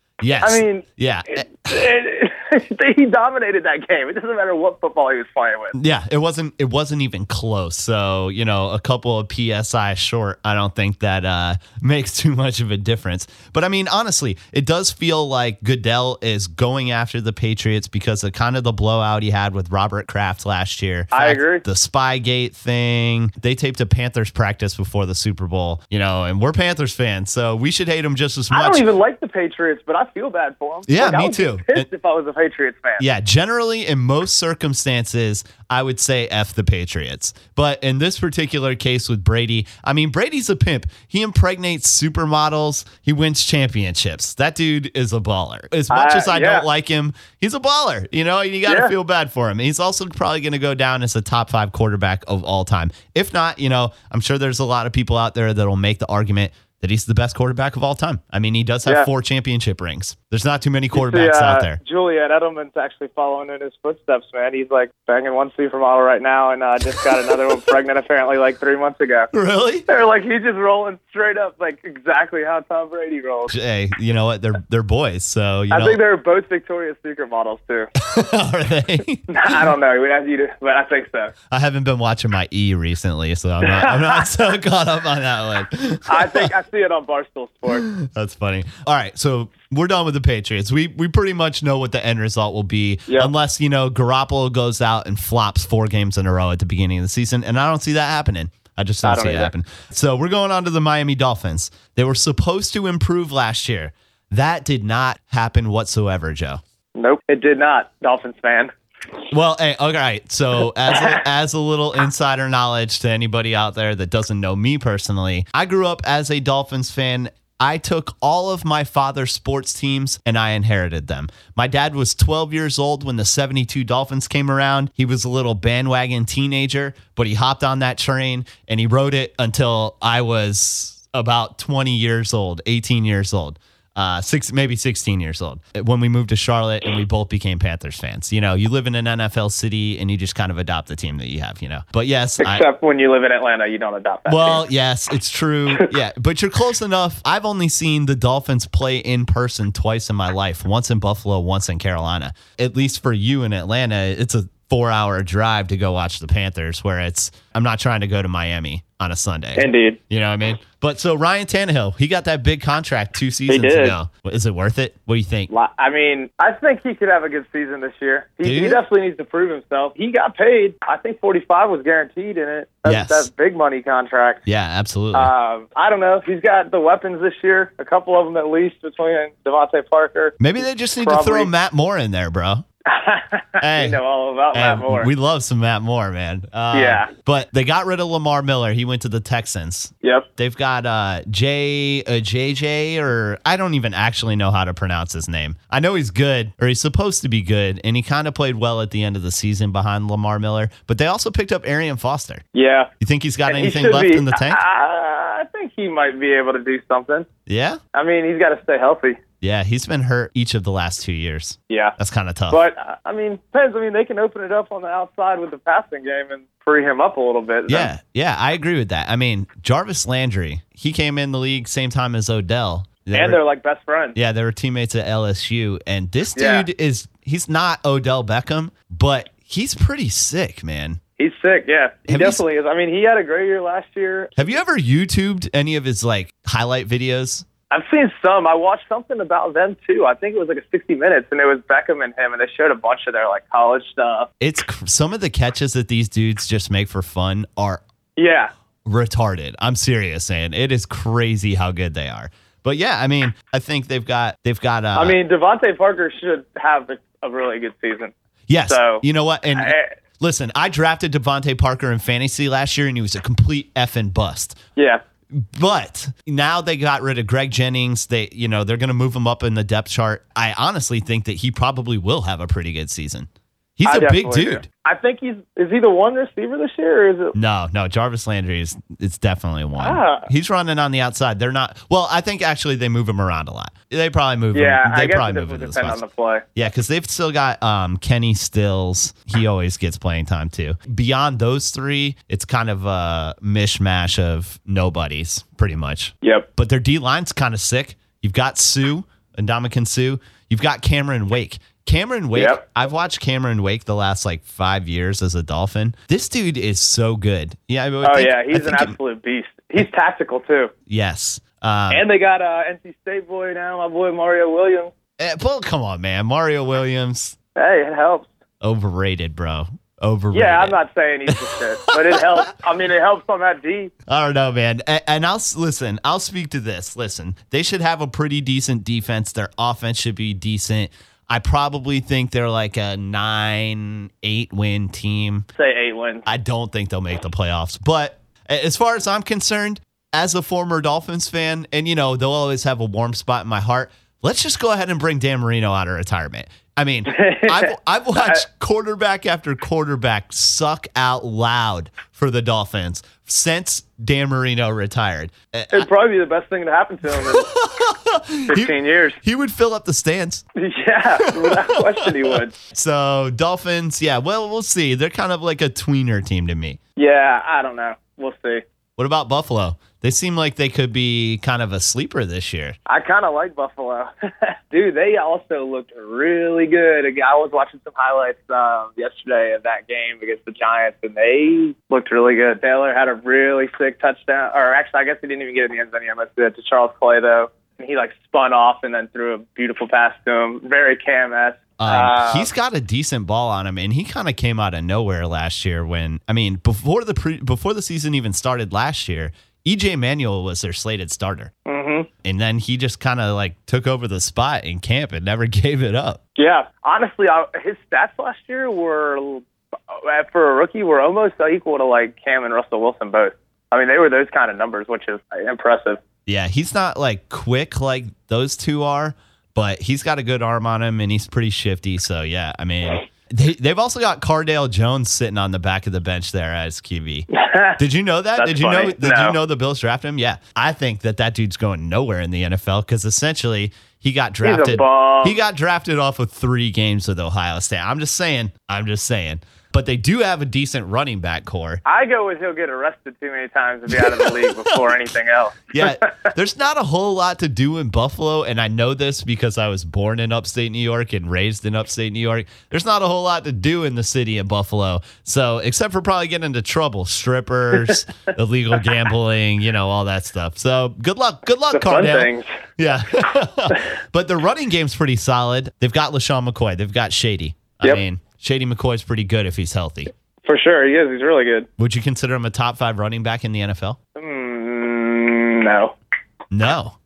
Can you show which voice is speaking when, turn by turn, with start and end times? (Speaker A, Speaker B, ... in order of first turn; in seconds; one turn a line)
Speaker A: 0.2-1.8
Speaker B: 0.4-5.8
Speaker A: 5.8-28.9
Speaker B: 21.1-21.6
Speaker B: 28.5-33.0
Speaker A: 30.9-31.9
Speaker A: 33.0-61.8
Speaker B: 45.9-46.7
Speaker B: 48.7-48.9
Speaker B: 60.9-69.3
Speaker A: 69.3-69.9
Speaker B: 69.9-73.5
Speaker A: 73.5-76.0
Speaker B: 75.7-77.9
Speaker A: 78.0-79.6
Speaker B: 79.3-81.3
Speaker A: 81.5-86.5
Speaker B: 83.6-84.3
Speaker B: 86.1-87.9
Speaker A: 87.9-106.6
Speaker B: 99.0-99.5
Speaker B: 107.0-108.7
Speaker A: 109.3-142.7
Speaker B: 110.9-111.2
Speaker B: 142.4-144.6
Speaker A: 144.3-165.5
Speaker B: 159.6-160.0
Speaker B: 163.5-164.0
Speaker B: 165.5-174.4
Speaker A: 168.4-168.8
Speaker A: 172.9-173.3
Speaker A: 174.5-175.3
Speaker B: 175.1-181.5
Speaker A: 180.4-182.7
Speaker B: 182.9-185.1
Speaker A: 183.6-184.0
Speaker A: 184.5-202.4
Speaker B: 186.7-187.1
Speaker B: 202.6-202.9
Speaker A: 203.0-204.6
Speaker B: 203.5-207.3
Speaker A: 207.5-207.8
Speaker B: 207.9-209.2
Speaker A: 209.4-212.6
Speaker B: 211.7-212.0
Speaker B: 212.5-217.9
Speaker A: 217.7-223.4
Speaker B: 223.1-224.2
Speaker A: 224.2-231.0
Speaker B: 226.4-226.7
Speaker B: 231.2-234.4
Speaker A: 232.1-232.4
Speaker A: 234.4-237.4
Speaker B: 237.7-244.3
Speaker A: 244.4-247.8
Speaker B: 248.2-248.5
Speaker A: 248.9-255.2
Speaker B: 254.9-258.1
Speaker A: 258.5-264.6
Speaker B: 258.7-259.0
Speaker B: 259.6-259.9
Speaker B: 264.8-265.0
Speaker A: 265.3-274.6
Speaker B: 273.9-277.4
Speaker A: 277.3-286.0
Speaker B: 279.8-280.3
Speaker B: 284.5-286.5
Speaker A: 286.6-308.9
Speaker B: 296.2-296.5
Speaker B: 302.4-302.6
Speaker B: 308.0-310.7
Speaker A: 310.9-312.1
Speaker B: 311.9-314.9
Speaker A: 315.2-317.4
Speaker B: 317.6-318.3
Speaker A: 318.6-320.8
Speaker B: 320.3-323.9
Speaker A: 321.3-322.5
Speaker A: 324.1-335.5
Speaker B: 335.6-336.3
Speaker A: 336.3-355.9
Speaker B: 347.1-348.4
Speaker B: 355.7-357.5
Speaker A: 357.1-360.4
Speaker B: 358.5-359.2
Speaker B: 360.6-362.6
Speaker A: 361.2-366.8
Speaker B: 367.0-368.6
Speaker A: 369.0-372.8
Speaker B: 372.9-392.5
Speaker A: 391.8-401.5
Speaker B: 401.7-402.1
Speaker A: 402.2-406.2
Speaker B: 406.4-416.0
Speaker A: 416.3-427.3
Speaker B: 427.3-427.8
Speaker A: 427.8-441.8
Speaker B: 428.4-429.4
Speaker B: 434.4-435.4
Speaker B: 441.9-446.3
Speaker A: 443.9-444.9
Speaker A: 445.7-470.1
Speaker B: 461.7-462.4
Speaker B: 470.4-471.7
Speaker A: 471.8-474.0
Speaker B: 474.2-475.9
Speaker A: 476.5-477.0